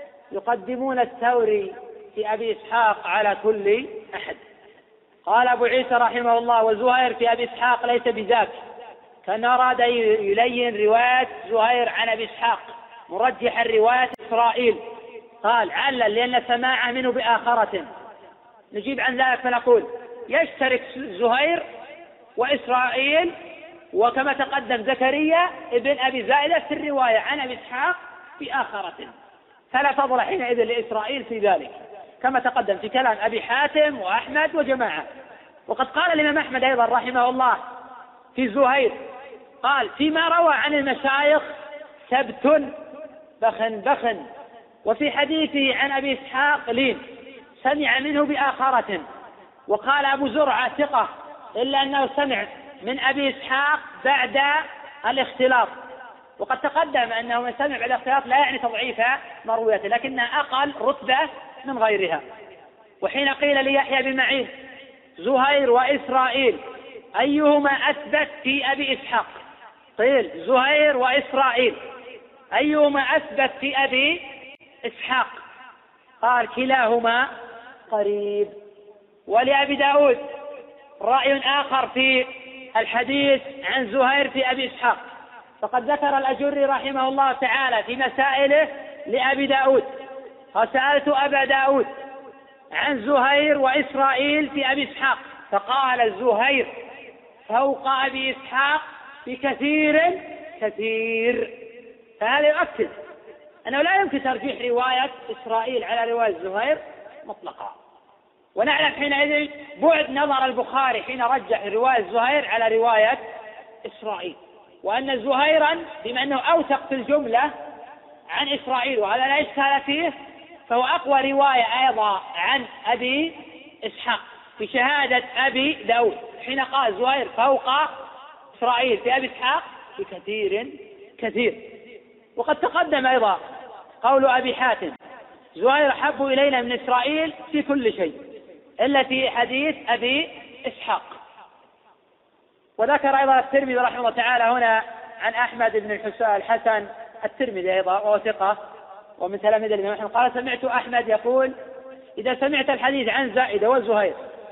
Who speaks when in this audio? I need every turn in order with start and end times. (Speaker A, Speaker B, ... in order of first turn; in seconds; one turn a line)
Speaker A: 0.3-4.4
Speaker A: 5.3-8.6
Speaker A: 9.2-14.8
Speaker A: 15.4-17.9
Speaker A: 18.7-21.6
Speaker A: 22.4-23.3
Speaker A: 23.9-29.1
Speaker A: 29.7-35.1
Speaker A: 35.7-37.6
Speaker A: 38.4-39.0
Speaker A: 39.6-41.5
Speaker A: 42.1-42.8
Speaker A: 43.4-44.3
Speaker A: 44.9-47.0
Speaker A: 47.6-49.0
Speaker A: 49.7-55.7
Speaker A: 56.4-62.2
Speaker A: 63.0-64.5
Speaker A: 65.2-66.6
Speaker A: 67.2-69.4
Speaker A: 70.0-71.8
Speaker A: 72.5-74.2
Speaker A: 74.8-75.4
Speaker A: 76.2-77.3
Speaker A: 77.9-78.5
Speaker A: 79.3-80.2
Speaker A: 81.0-85.0
Speaker A: 85.6-89.9
Speaker A: 90.5-91.9
Speaker A: 92.7-96.7
Speaker A: 97.5-101.6
Speaker A: 102.2-102.9
Speaker A: 103.7-107.8
Speaker A: 108.6-113.2
Speaker A: 113.8-117.5
Speaker A: 118.3-120.1
Speaker A: 120.7-127.9
Speaker A: 128.5-131.8
Speaker A: 132.4-133.4
Speaker A: 134.0-134.9
Speaker A: 135.6-138.2
Speaker A: 138.8-141.2
Speaker A: 142.8-148.6
Speaker A: 149.2-151.5
Speaker A: 152.2-154.2